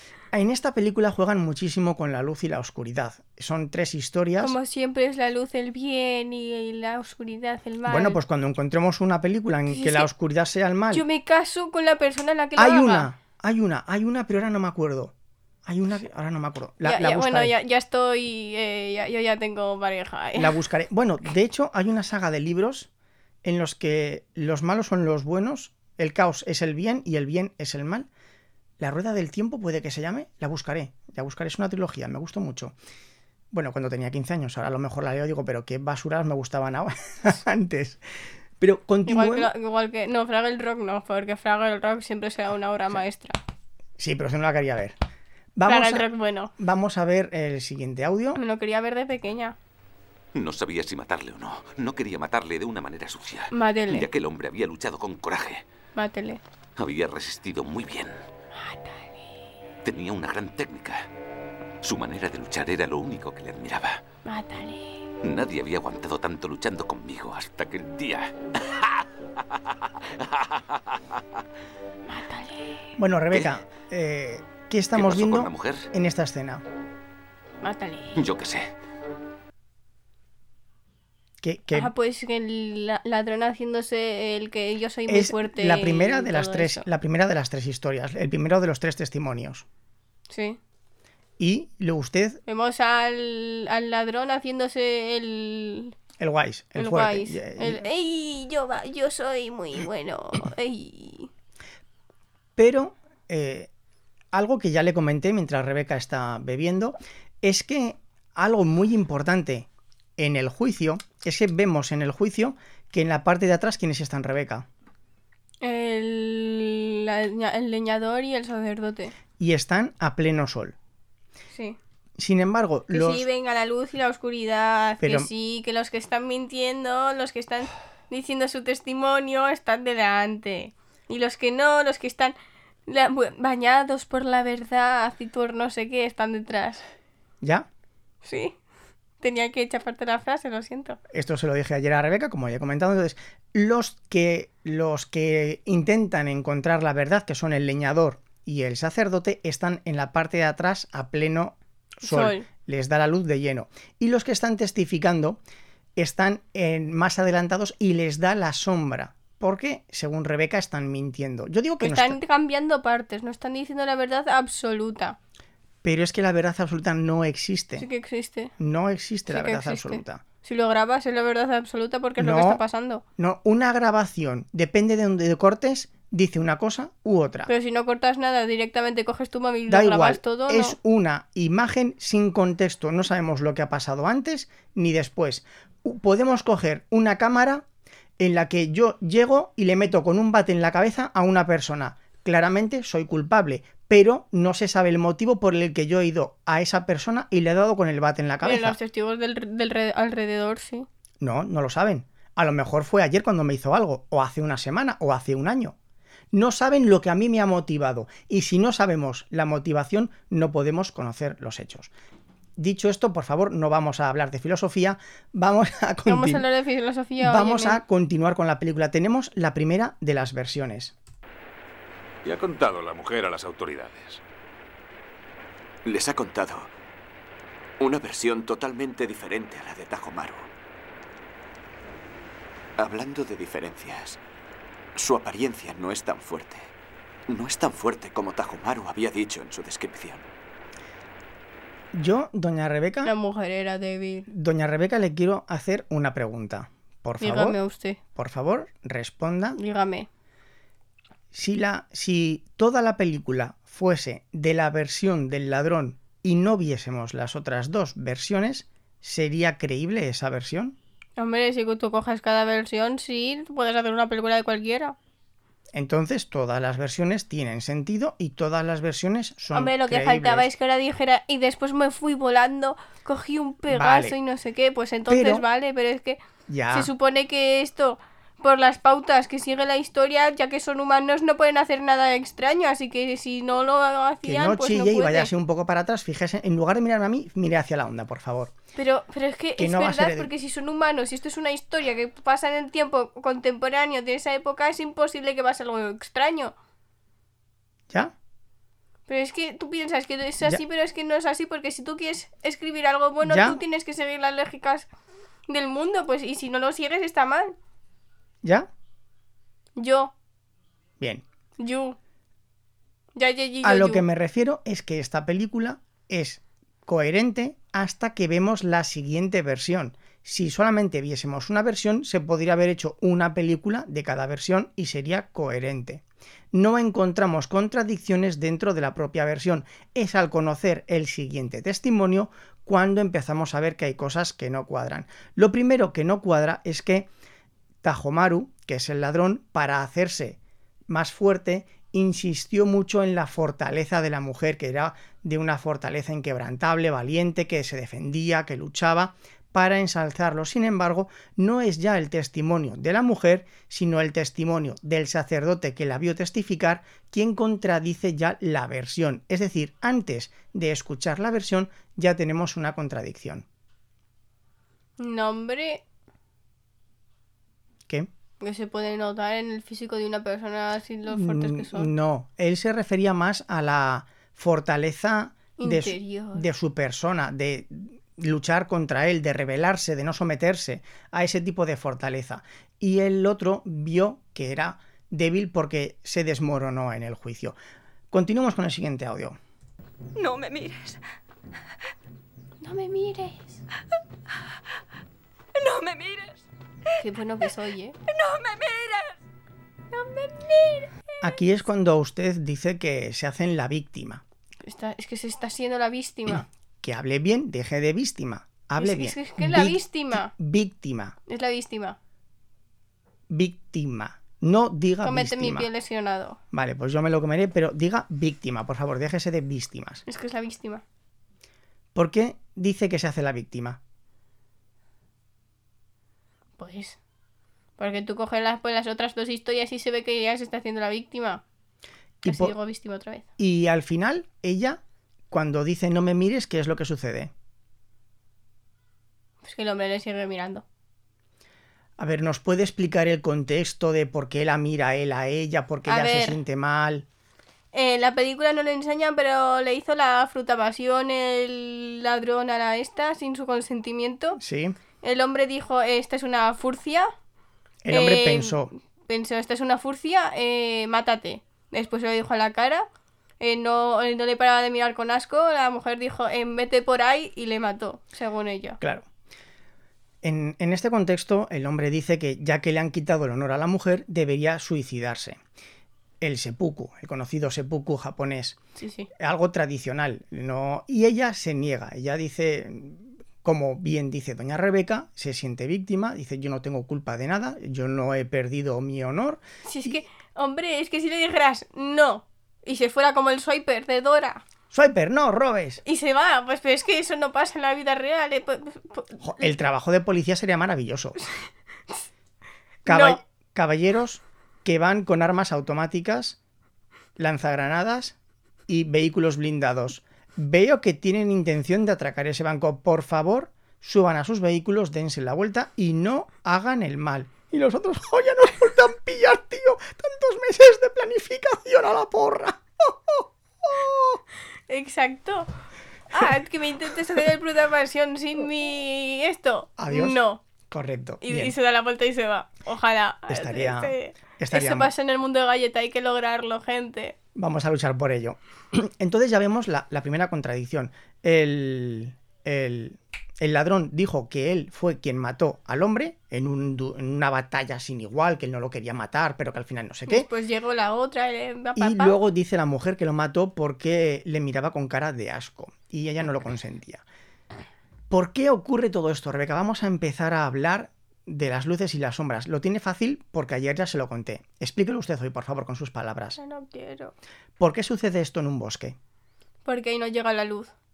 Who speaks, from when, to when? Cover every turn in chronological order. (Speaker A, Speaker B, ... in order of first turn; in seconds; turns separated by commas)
Speaker A: 0.3-4.5, Speaker B: 4.4-8.2, Speaker A: 7.8-11.0, Speaker B: 9.7-10.1, Speaker B: 10.9-13.1, Speaker A: 12.6-15.1, Speaker A: 15.7-17.5, Speaker B: 16.8-20.6, Speaker A: 20.4-22.9, Speaker A: 23.4-28.1, Speaker A: 28.8-32.7, Speaker A: 33.5-38.0, Speaker A: 38.6-39.5, Speaker B: 39.0-43.4, Speaker A: 44.0-44.9, Speaker A: 45.5-48.4, Speaker B: 45.6-46.5, Speaker B: 48.4-49.5, Speaker C: 50.3-55.6, Speaker B: 53.5-54.0, Speaker B: 55.9-56.4, Speaker C: 56.8-58.2, Speaker B: 58.5-59.2, Speaker C: 59.8-61.0, Speaker C: 61.8-64.0, Speaker B: 64.2-65.0, Speaker C: 65.2-69.0, Speaker C: 70.2-71.0, Speaker B: 72.0-72.8, Speaker A: 73.0-76.6, Speaker C: 74.9-75.9, Speaker B: 77.6-78.2, Speaker C: 78.2-78.7, Speaker A: 81.4-81.9, Speaker B: 81.7-86.8, Speaker A: 85.1-89.6, Speaker B: 90.3-90.6, Speaker A: 91.4-92.4, Speaker B: 92.5-95.9, Speaker A: 96.2-97.8, Speaker B: 96.8-101.3, Speaker A: 102.6-103.7, Speaker A: 104.3-114.6, Speaker B: 115.6-119.1, Speaker A: 119.4-120.7, Speaker B: 121.5-121.8, Speaker A: 122.2-123.2, Speaker B: 122.9-132.3, Speaker A: 125.0-125.3, Speaker B: 132.9-136.8, Speaker A: 137.4-137.7, Speaker B: 138.2-138.5, Speaker B: 139.2-141.0, Speaker A: 141.1-155.4, Speaker B: 152.0-152.4, Speaker A: 155.9-162.2, Speaker B: 161.8-165.2, Speaker A: 165.8-167.9, Speaker B: 167.8-168.5, Speaker A: 168.6-170.2, Speaker B: 169.3-173.0, Speaker A: 172.2-172.6, Speaker A: 173.2-177.5, Speaker B: 177.5-180.8, Speaker A: 179.7-187.6, Speaker A: 188.2-198.8, Speaker B: 198.4-200.9, Speaker A: 201.2-205.7, Speaker A: 206.3-211.9, Speaker A: 212.6-216.4, Speaker B: 216.1-217.8, Speaker A: 217.2-220.9, Speaker D: 222.2-224.2, Speaker E: 225.8-226.7, Speaker E: 227.8-230.5, Speaker E: 232.8-234.2, Speaker E: 234.9-236.7, Speaker E: 237.3-240.2, Speaker A: 241.9-243.1, Speaker B: 243.0-244.3, Speaker A: 244.3-247.6, Speaker B: 247.2-248.0, Speaker A: 248.1-249.6, Speaker B: 249.6-250.1, Speaker A: 251.3-260.8, Speaker B: 261.2-264.9, Speaker A: 265.7-270.5, Speaker B: 269.5-276.2, Speaker A: 273.7-274.1, Speaker A: 275.1-275.4, Speaker A: 276.5-276.9, Speaker B: 276.7-285.3, Speaker A: 284.2-288.5, Speaker B: 288.8-296.5, Speaker A: 289.6-290.3, Speaker B: 299.1-304.9, Speaker A: 303.2-303.6, Speaker B: 305.5-307.5, Speaker B: 309.8-310.1, Speaker B: 311.6-312.0, Speaker B: 313.1-314.0, Speaker A: 313.6-326.0, Speaker A: 326.5-337.1, Speaker A: 337.8-363.4, Speaker B: 365.0-365.8, Speaker B: 368.4-371.9, Speaker A: 371.1-387.6, Speaker B: 375.6-376.4, Speaker A: 388.1-389.4, Speaker F: 390.1-391.0, Speaker B: 392.6-393.6, Speaker F: 395.5-396.4, Speaker B: 397.0-397.9, Speaker F: 398.1-399.2, Speaker B: 399.9-401.4, Speaker A: 401.2-404.2, Speaker B: 404.6-406.4, Speaker A: 406.8-411.1, Speaker B: 408.8-410.3, Speaker B: 411.3-412.0, Speaker A: 413.3-415.7, Speaker B: 415.0-416.4, Speaker A: 416.5-420.0, Speaker B: 420.1-420.8, Speaker A: 421.9-423.8, Speaker B: 426.6-427.0, Speaker B: 427.8-431.4, Speaker A: 432.2-432.5, Speaker B: 432.2-433.2, Speaker A: 433.4-434.8, Speaker A: 435.3-437.3, Speaker B: 439.4-440.6, Speaker A: 442.0-447.0, Speaker B: 445.9-446.4, Speaker B: 447.7-454.4, Speaker A: 454.4-454.8, Speaker B: 455.0-457.1, Speaker A: 457.8-458.7, Speaker B: 457.9-462.9, Speaker B: 463.4-468.8, Speaker A: 468.8-469.1, Speaker A: 470.2-475.4, Speaker A: 476.2-478.6, Speaker B: 478.8-479.1, Speaker A: 479.2-490.0, Speaker B: 489.6-494.4, Speaker A: 494.7-495.8, Speaker B: 495.8-499.2, Speaker A: 499.2-501.2, Speaker A: 502.9-506.4, Speaker B: 502.9-503.2, Speaker A: 507.2-508.1, Speaker A: 508.7-524.2, Speaker B: 524.7-525.5, Speaker B: 526.1-530.4, Speaker A: 529.8-530.2, Speaker A: 530.7-531.5, Speaker B: 531.2-537.1, Speaker A: 533.3-534.9, Speaker A: 537.3-550.3, Speaker B: 550.1-552.1, Speaker A: 551.8-557.0, Speaker A: 558.1-566.4, Speaker B: 566.4-567.1, Speaker A: 567.6-569.0, Speaker B: 569.6-570.7